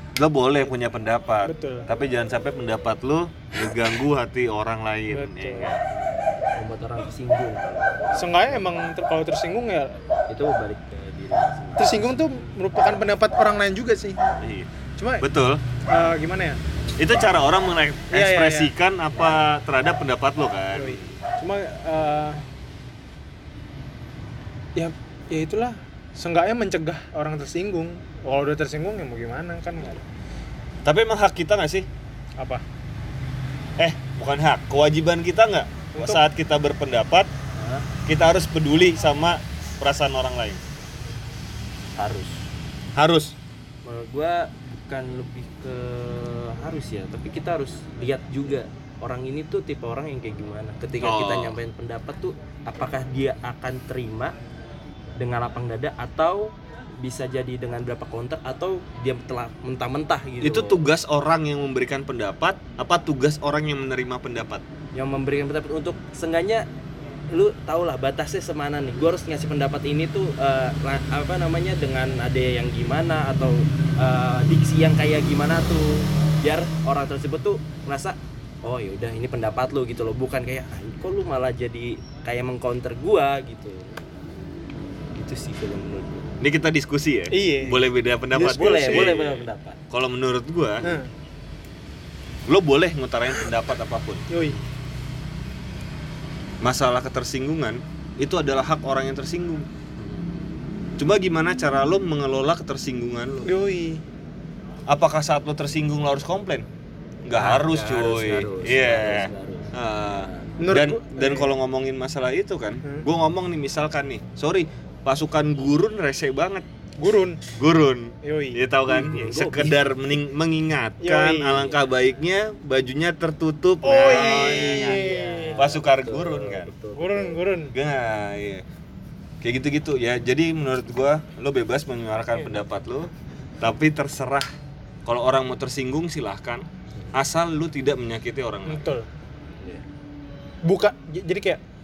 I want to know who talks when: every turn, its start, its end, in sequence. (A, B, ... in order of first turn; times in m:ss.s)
0:00.2-0:05.8 A
0:01.4-0:01.9 B
0:05.1-0:05.7 B
0:06.5-0:08.8 C
0:08.2-0:10.0 B
0:10.3-0:12.2 C
0:11.8-0:14.2 B
0:14.4-0:14.7 A
0:15.0-0:15.3 B
0:15.2-0:15.6 A
0:15.9-0:16.6 B
0:17.0-0:21.1 A
0:18.1-0:18.7 B
0:19.2-0:19.4 C
0:20.7-0:22.4 B
0:24.8-0:30.0 B
0:30.8-0:31.9 A
0:32.4-0:32.6 B
0:33.8-0:37.3 A
0:36.0-0:36.2 B
0:37.6-0:37.9 C
0:38.1-0:40.6 A
0:42.0-0:42.4 C
0:43.0-0:43.4 A
0:43.8-0:54.4 C
0:51.0-0:51.6 A
0:55.2-1:00.8 C
1:00.4-1:04.6 A
1:05.0-1:06.7 C
1:07.3-1:24.1 C
1:25.1-1:26.3 C
1:26.4-1:30.9 A
1:27.3-1:29.2 B
1:28.4-1:29.8 C
1:30.8-1:31.1 B
1:32.5-1:34.2 A
1:34.3-1:34.6 B
1:36.6-1:39.7 A
1:40.0-1:40.6 C
1:41.0-1:43.5 A
1:43.4-1:44.0 B
1:44.9-1:46.7 A
1:47.2-1:56.6 A
1:47.3-1:50.6 C
1:50.6-1:51.5 B
1:57.0-1:57.4 B
1:57.6-2:05.0 A
1:58.2-1:58.6 B
1:58.9-1:59.9 C
2:01.0-2:01.7 B
2:03.8-2:05.6 B
2:04.0-2:07.4 C
2:05.6-2:06.7 A
2:07.0-2:07.8 B
2:07.7-2:08.6 A
2:09.4-2:14.5 A
2:15.0-2:18.9 A
2:18.7-2:19.1 B
2:20.6-2:21.6 B